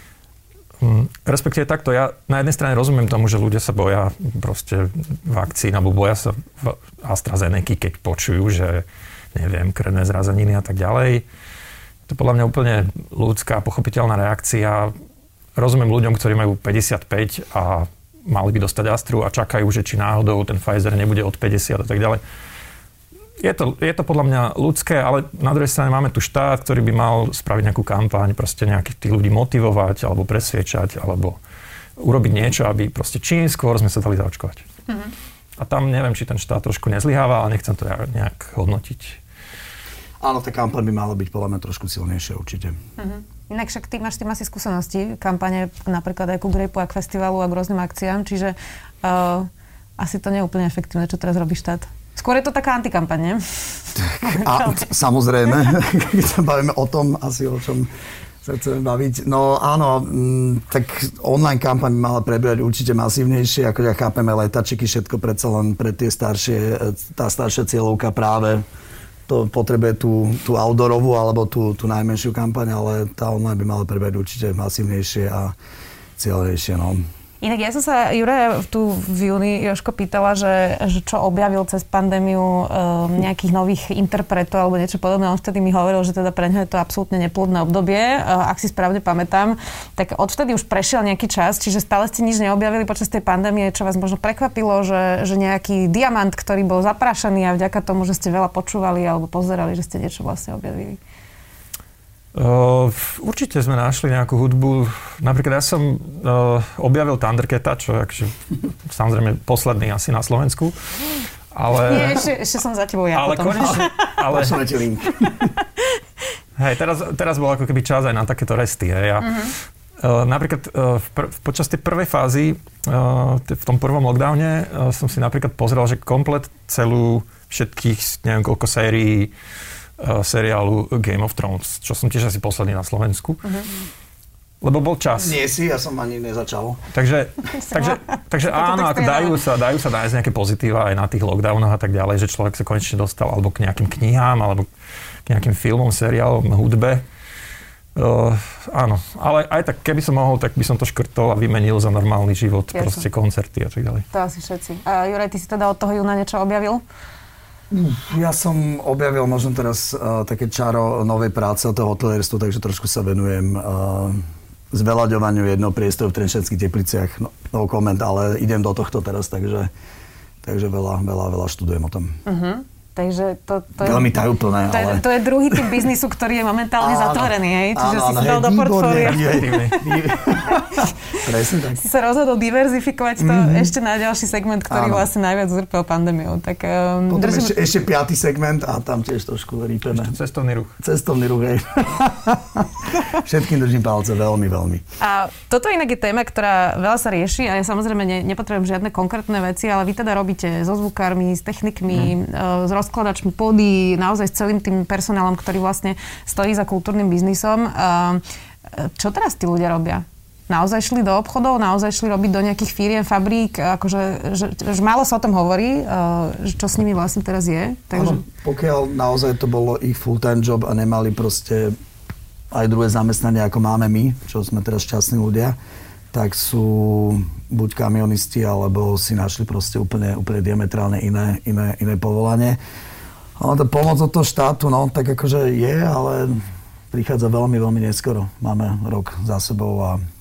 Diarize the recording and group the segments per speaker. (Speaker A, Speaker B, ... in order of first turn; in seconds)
Speaker A: 0.8-11.2, 12.1-14.9, 15.6-22.2, 23.4-31.4, 32.0-34.6, 35.6-39.2, 102.3-108.3, 108.9-110.7, 111.5-112.3, 113.1-114.6, 116.6-129.3, 130.0-133.5, 134.6-135.4, 136.9-144.7, 145.2-147.0, 147.9-154.0, 178.9-179.8, 189.9-190.7
Speaker B: 40.2-42.7, 54.0-57.9, 58.4-68.6, 69.3-75.5, 76.2-77.0, 113.8-115.5, 135.2-136.8, 157.7-164.2, 164.7-169.7, 170.4-172.1, 173.8-175.1, 176.8-181.8, 183.2-183.7, 184.7-185.1, 187.1-190.1, 190.8-194.8, 217.9-221.7, 222.5-225.6, 226.1-232.6, 233.4-236.4, 236.9-240.0
Speaker C: 43.0-53.4, 54.2-54.9, 77.4-101.0, 111.7-114.0, 119.2-119.5, 137.6-139.4, 152.7-153.1, 154.1-156.8, 172.2-174.1, 174.7-179.8, 181.8-187.6, 195.0-208.2, 208.7-218.2